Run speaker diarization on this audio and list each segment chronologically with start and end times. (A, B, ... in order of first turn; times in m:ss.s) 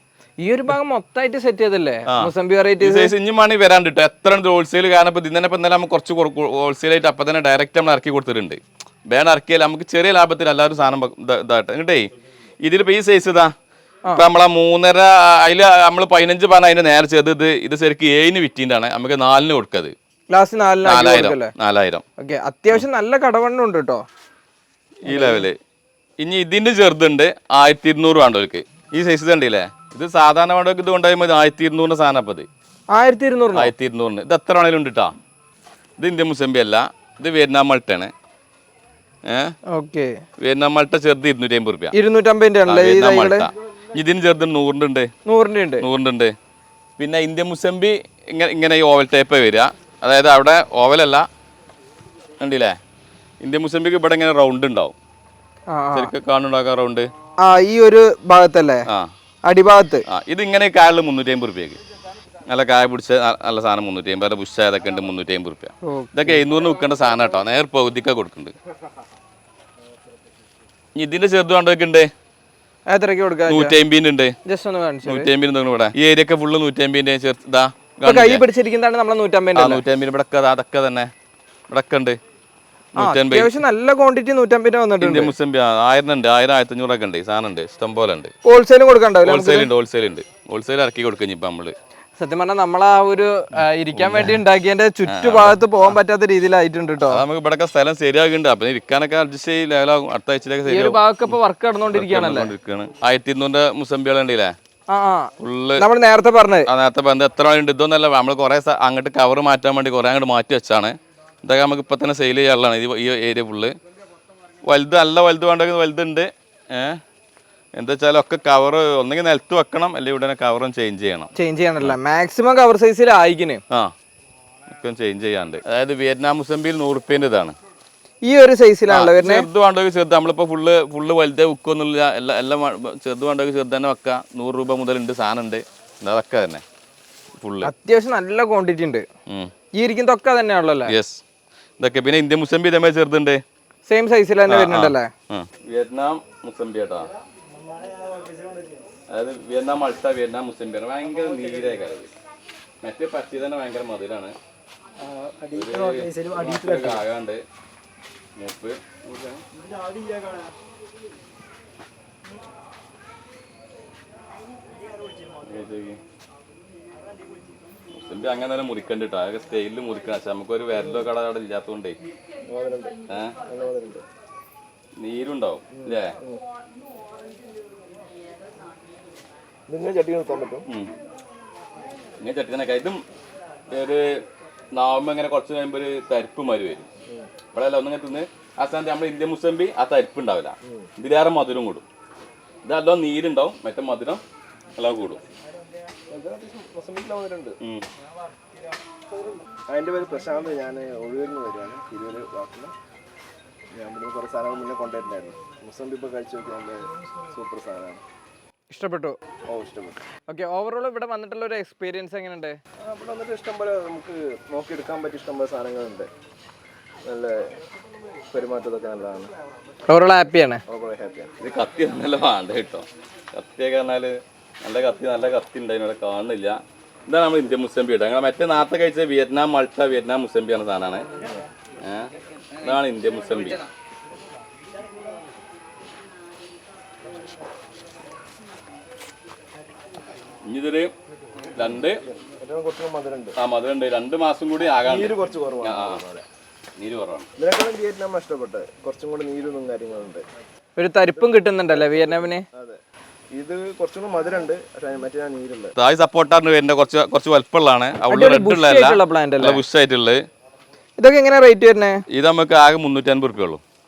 0:00.4-0:03.1 A
0:02.1-0:12.1 B
0:12.6-0:13.5 B
0:14.1-0:19.9 B
0:20.3-0:21.5 A
0:20.8-0:22.0 B
0:22.2-0:24.0 A
0:25.1-0:25.6 B
0:25.1-0:25.5 A
0:26.2-0:32.5 B
0:32.9-0:33.7 A
0:33.5-0:35.1 B
0:36.0-0:38.1 B
0:39.3-0:39.5 B
0:39.7-0:40.1 A
0:40.4-0:41.9 B
0:41.9-0:43.5 A
0:42.7-0:45.1 B
0:45.3-0:45.8 A
0:45.8-0:46.3 B
0:47.0-0:51.3 B
0:52.4-0:52.8 B
0:53.4-0:55.0 B
0:55.7-0:56.1 A
0:55.9-0:57.1 B
0:57.4-0:58.9 A
0:59.5-1:00.0 A
1:00.1-1:01.8 B
1:02.5-1:08.5 B
1:05.8-1:06.4 A
1:11.0-1:12.1 B
1:12.9-1:13.8 A
1:13.5-1:14.4 B
1:14.5-1:15.3 A
1:15.0-1:18.4 B
1:18.0-1:19.8 A
1:19.6-1:21.1 B
1:21.7-1:22.2 B
1:23.0-1:23.5 B
1:23.0-1:25.3 A
1:25.0-1:28.3 B
1:28.4-1:29.7 A
1:29.2-1:31.7 B
1:32.2-1:37.2 A
1:33.9-1:34.4 B
1:35.0-1:36.0 B
1:37.0-1:41.4 B
1:40.7-1:42.5 A
1:41.9-1:44.6 B
1:44.9-1:46.7 A
1:45.4-1:45.8 B
1:46.7-1:53.7 B
1:54.6-1:57.0 B
1:57.8-2:02.0 B
2:01.4-2:03.6 A
2:04.7-2:07.5 B
2:08.2-2:09.5 A
2:08.9-2:16.6 B
2:17.4-2:17.7 B
2:17.6-2:19.0 A
2:19.8-2:20.9 A
2:20.9-2:21.2 B
2:21.8-2:23.4 B
2:23.9-2:25.1 A
2:24.5-2:27.1 B
2:29.1-2:32.1 B
2:32.8-2:34.4 B
2:35.5-2:37.4 B
2:36.6-2:36.9 A
2:38.4-2:39.4 B
2:45.4-2:46.0 B
2:48.0-2:52.0 B
2:52.5-2:54.0 C
2:53.1-2:53.4 B
2:55.0-2:56.2 B
2:55.7-2:56.4 C
2:59.7-3:00.6 C
3:02.2-3:03.0 B
3:03.7-3:04.2 B
3:04.7-3:06.9 B
3:07.5-3:11.8 B
3:12.6-3:14.2 B
3:14.8-3:15.2 B
3:16.1-3:17.6 C
3:19.7-3:22.7 C
3:23.7-3:28.0 C
3:28.7-3:29.2 A
3:29.5-3:30.0 C
3:30.3-3:32.6 A
3:32.8-3:36.1 C
3:37.1-3:37.5 C
3:38.3-3:39.3 C
3:39.9-3:40.6 A
3:40.7-3:41.3 C
3:41.4-3:51.1 B
3:51.8-3:53.6 B
4:00.5-4:00.9 B
4:01.6-4:02.0 B
4:02.1-4:03.3 C
4:03.4-4:06.0 B
4:04.8-4:06.2 C
4:06.8-4:07.3 B
4:07.4-4:10.2 C
4:10.8-4:12.4 A
4:11.1-4:12.8 C
4:13.3-4:15.7 C
4:15.8-4:20.2 B
4:18.1-4:19.6 A
4:21.0-4:22.0 A
4:22.1-4:23.6 B